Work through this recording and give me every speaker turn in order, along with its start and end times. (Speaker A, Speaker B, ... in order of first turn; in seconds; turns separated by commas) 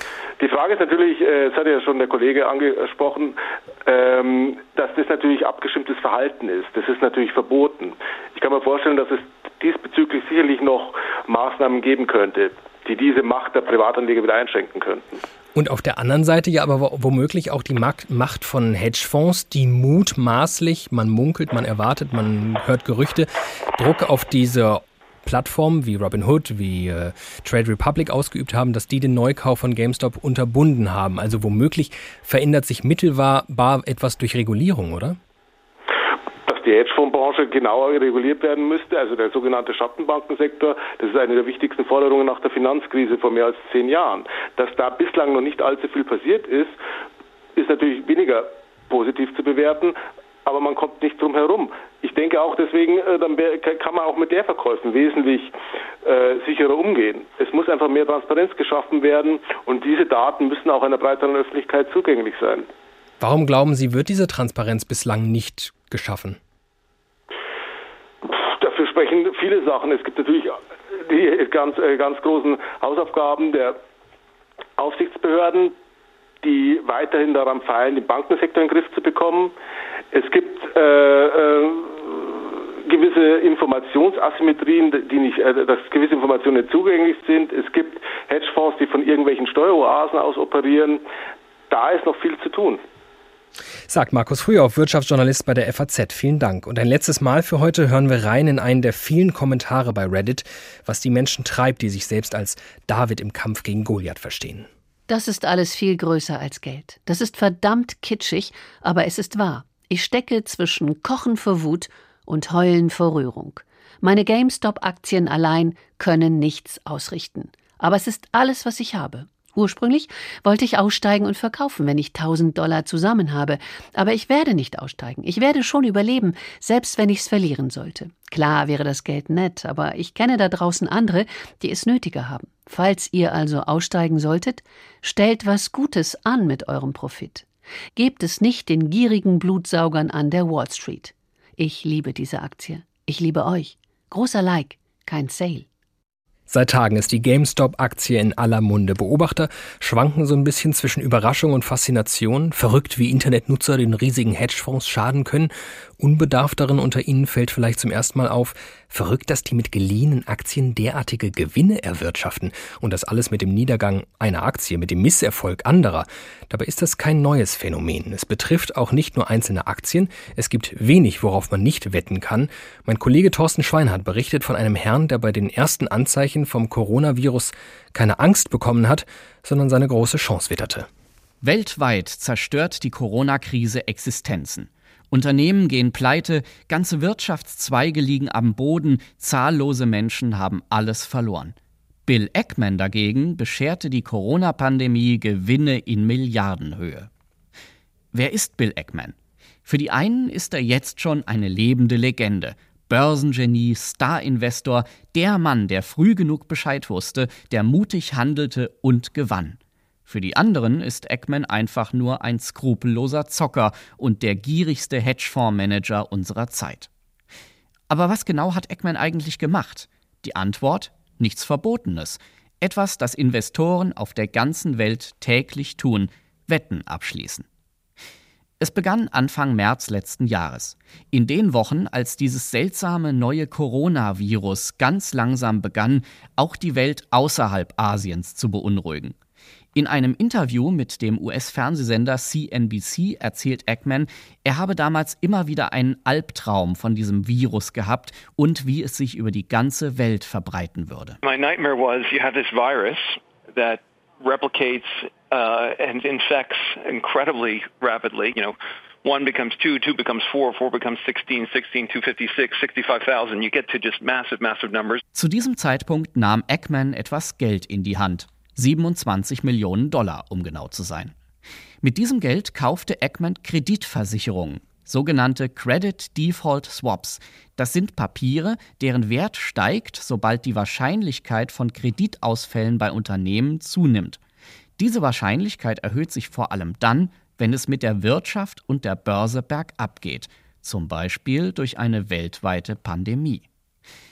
Speaker A: 0.4-15.2, Speaker B: 15.5-35.2, Speaker A: 36.4-46.8, Speaker A: 47.5-55.5, Speaker A: 56.0-62.7, Speaker B: 63.2-66.4, Speaker A: 68.2-73.8, Speaker A: 74.8-75.7, Speaker A: 76.4-79.5, Speaker A: 80.1-91.0, Speaker A: 91.7-92.8, Speaker B: 93.9-104.7, Speaker C: 105.1-145.7, Speaker B: 146.5-180.9, Speaker D: 181.4-191.5, Speaker D: 192.1-197.1, Speaker D: 198.1-199.1, Speaker D: 199.7-216.9, Speaker D: 217.9-227.4, Speaker D: 228.6-239.1, Speaker D: 239.7-251.2, Speaker E: 251.2-265.0, Speaker D: 265.1-271.1, Speaker D: 271.8-284.2, Speaker D: 284.8-293.4